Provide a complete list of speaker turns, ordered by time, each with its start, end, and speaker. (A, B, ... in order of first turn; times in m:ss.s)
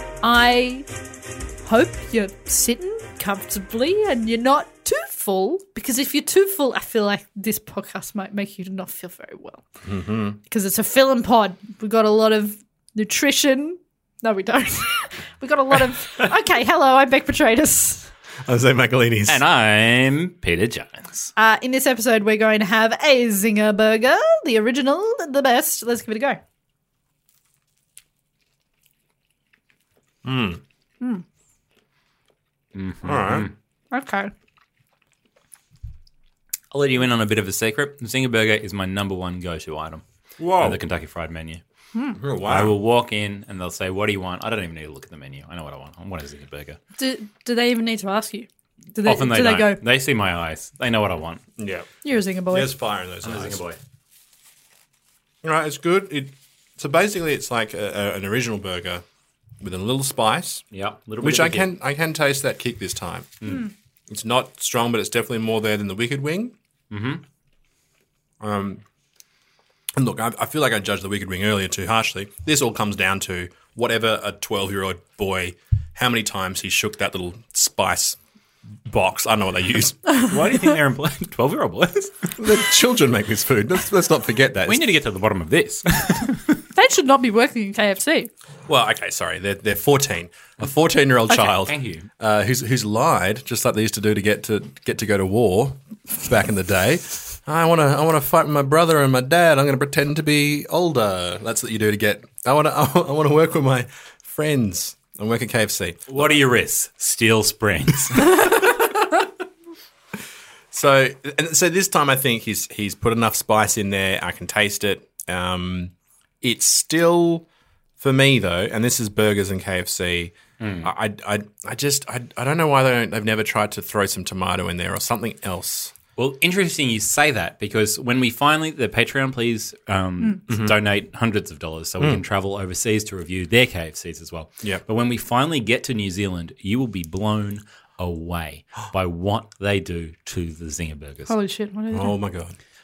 0:00.2-0:00.9 A
0:01.6-0:09.6 A
0:09.8-0:10.4 B
0:10.4-0:18.1 A
0:18.4-0:19.4 B
0:19.3-0:21.3 C
0:21.4-0:26.4 A
0:30.2-0:30.6 B
0:32.7-0:33.5 C
0:33.0-0:33.5 B
0:33.9-0:34.3 A
0:36.7-0:41.6 C
0:40.4-0:40.8 B
0:41.9-0:42.2 A
0:42.2-0:42.8 B
0:42.4-0:46.8 C
0:47.0-0:49.8 A
0:49.0-0:51.4 C
0:51.6-0:51.9 B
0:52.0-0:52.7 A
0:52.5-0:53.6 B
0:53.2-0:53.8 C
0:55.4-0:59.0 B
0:59.6-1:00.6 B
1:00.7-1:01.7 C
1:01.2-1:03.3 B
1:04.1-1:06.5 B
1:06.9-1:07.2 C
1:08.4-1:08.8 B
1:10.0-1:18.2 B
1:18.9-1:20.1 B
1:20.2-1:22.7 C
1:22.4-1:24.8 B
1:24.6-1:26.6 C
1:26.7-1:28.3 A
1:28.6-1:46.3 B
1:31.3-1:32.1 C
1:46.1-1:48.7 C
1:50.7-1:57.4 B
1:58.0-2:05.9 B
2:00.6-2:00.9 C
2:06.2-2:21.3 C
2:10.5-2:10.7 B
2:21.3-2:22.1 A
2:21.9-2:22.6 B